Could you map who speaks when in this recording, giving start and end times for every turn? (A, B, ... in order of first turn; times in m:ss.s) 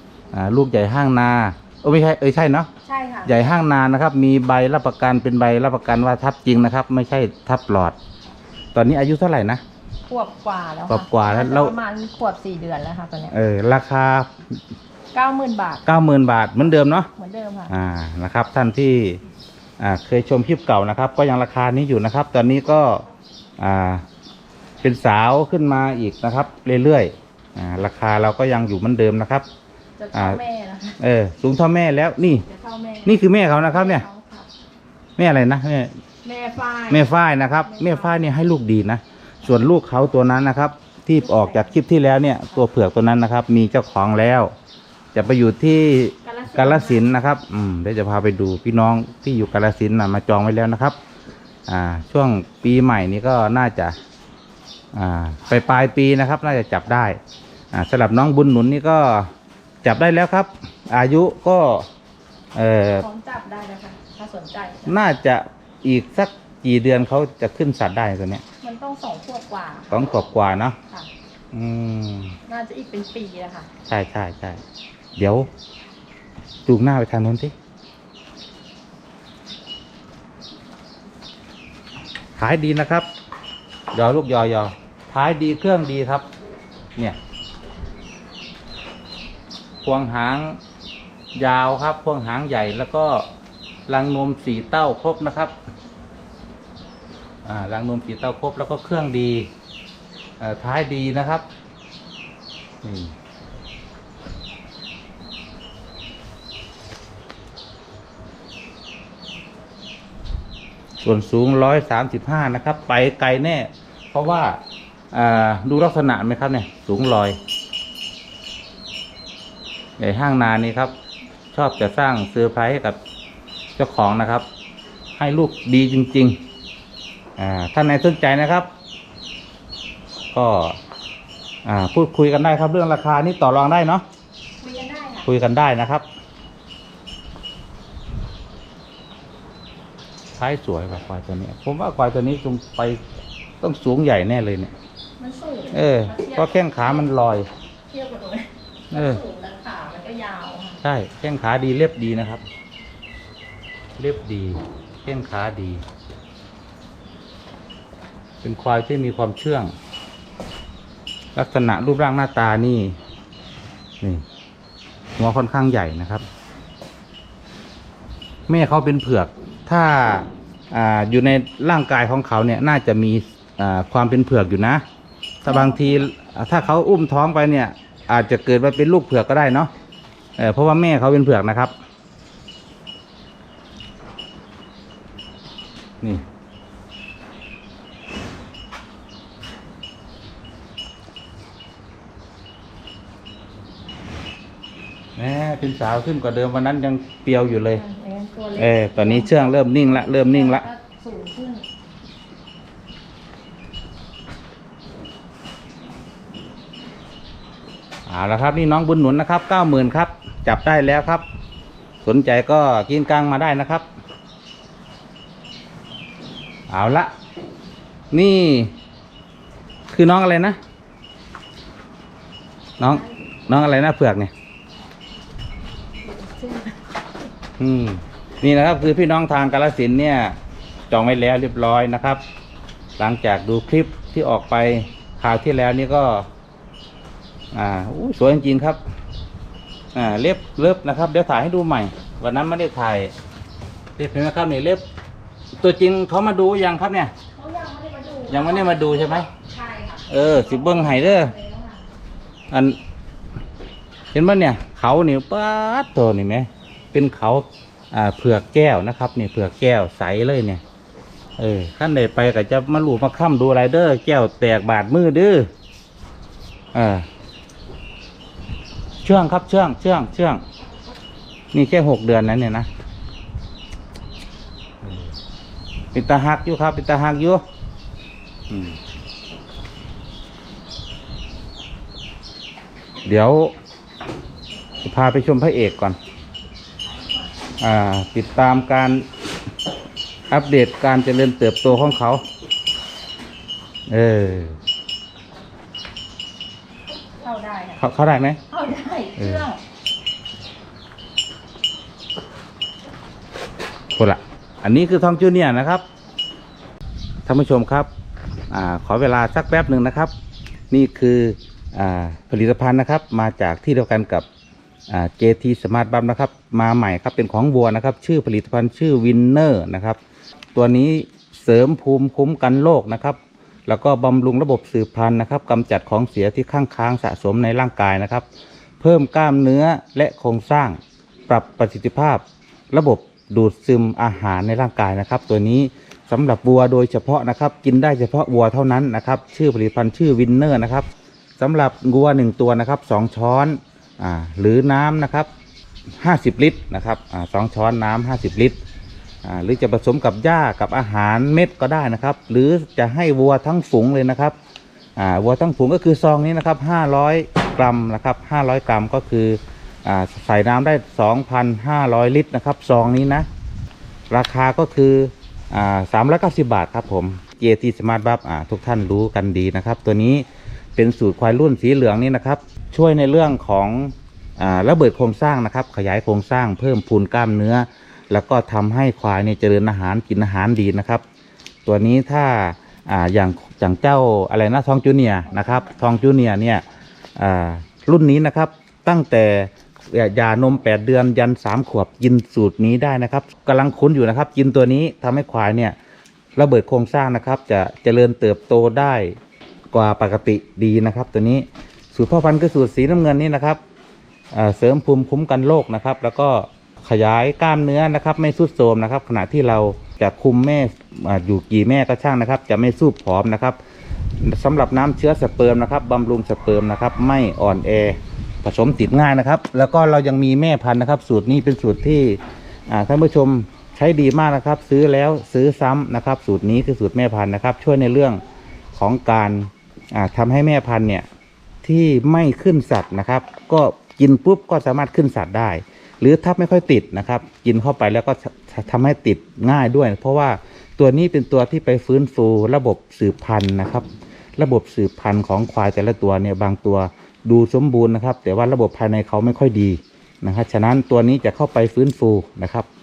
0:00.3-0:02.7 A
0:02.8-0:03.3 B
0:03.2-0:08.0 A
0:08.7-0:09.6 A
0:10.1-0:13.4 B
0:10.9-0:11.7 A
0:13.3-0:14.3 A
0:15.1-0:15.8 B
0:15.8-0:17.1 A
0:17.1-0:17.7 B
0:17.7-0:19.2 A
0:19.8-0:23.0 A
0:23.6-0:24.0 A
0:24.8-0:29.5 A
0:30.0-0:31.0 B
0:30.1-0:30.4 A
0:31.0-0:32.4 A
0:32.4-0:34.5 B
0:33.0-0:34.0 A
0:35.2-0:35.9 A
0:36.2-0:38.2 B
0:36.9-0:44.5 A
0:41.2-0:41.8 B
0:45.1-0:51.0 A
0:46.2-0:47.1 B
0:51.7-0:54.0 A
0:54.9-0:57.2 A
0:57.7-0:59.3 A
0:59.8-1:01.9 A
1:02.5-1:03.0 A
1:02.8-1:04.9 B
1:04.8-1:08.4 A
1:08.6-1:10.1 B
1:09.9-1:10.8 A
1:11.5-1:12.3 A
1:12.5-1:13.7 B
1:13.9-1:14.6 A
1:15.2-1:15.5 A
1:16.6-1:17.5 A
1:22.4-1:23.1 A
1:23.9-1:26.2 A
1:29.8-1:30.6 A
1:31.3-1:33.3 A
1:33.9-1:35.5 A
1:37.4-1:39.5 A
1:40.4-1:41.4 A
1:42.8-1:43.1 A
1:51.0-1:54.6 A
1:55.1-1:57.4 A
2:00.0-2:00.9 A
2:01.5-2:03.0 A
2:03.8-2:04.4 A
2:05.2-2:06.4 A
2:07.4-2:08.7 A
2:10.3-2:10.8 A
2:11.6-2:14.0 A
2:14.6-2:15.3 B
2:15.2-2:16.0 A
2:20.4-2:23.0 A
2:23.6-2:24.7 A
2:25.2-2:27.1 B
2:25.7-2:27.5 A
2:27.9-2:30.8 B
2:28.9-2:29.2 A
2:30.8-2:32.4 A
2:34.0-2:35.8 A
2:38.4-2:39.7 A
2:41.3-2:43.0 A
2:45.2-2:46.2 A
2:48.5-2:54.8 A
2:55.4-2:59.7 A
2:55.5-2:55.9 B
3:00.4-3:01.7 A
3:15.2-3:17.8 A
3:17.7-3:21.6 B
3:18.6-3:20.6 A
3:28.1-3:31.2 A
3:32.0-3:33.8 A
3:36.7-3:37.1 A
3:38.1-3:38.7 A
3:39.9-3:40.6 A
3:42.8-3:44.3 A
3:46.0-3:46.8 B
3:47.6-3:50.4 A
3:50.9-3:52.2 A
3:53.0-3:56.3 A
3:57.5-3:58.8 A
3:59.9-4:03.1 A
4:04.0-4:04.8 A
4:05.6-4:07.1 A
4:07.3-4:11.8 B
4:08.3-4:09.3 A
4:10.1-4:11.3 A
4:12.5-4:12.8 A
4:14.1-4:20.6 A
4:21.4-4:25.5 A
4:26.7-4:27.1 A
4:29.0-4:30.4 A
4:31.5-4:32.7 A
4:35.9-4:37.4 A
4:38.5-4:38.8 A
4:43.0-4:43.5 A
4:44.8-4:46.0 A
4:47.6-4:49.0 A
4:50.3-4:52.2 A
4:53.9-4:54.6 A
4:57.2-4:57.8 B
4:57.8-4:58.4 A
4:58.5-4:59.6 B
4:59.2-4:59.4 A
5:04.0-5:05.8 A
5:07.2-5:07.9 A
5:08.5-5:10.1 A
5:10.7-5:14.2 A
5:14.9-5:20.0 A
5:20.5-5:28.2 A
5:28.8-5:40.8 A
5:41.4-5:45.3 A
5:46.0-5:48.6 A
5:49.2-5:54.3 A
5:55.0-6:03.3 A
6:04.1-6:21.0 A
6:21.6-6:26.6 A
6:25.3-6:25.8 B
6:27.2-6:35.8 A
6:36.4-6:39.2 A
6:39.7-6:43.6 A
6:44.3-6:53.6 A
6:54.2-7:08.2 A
7:08.7-7:11.0 A
7:11.6-7:23.8 A
7:24.4-7:32.6 A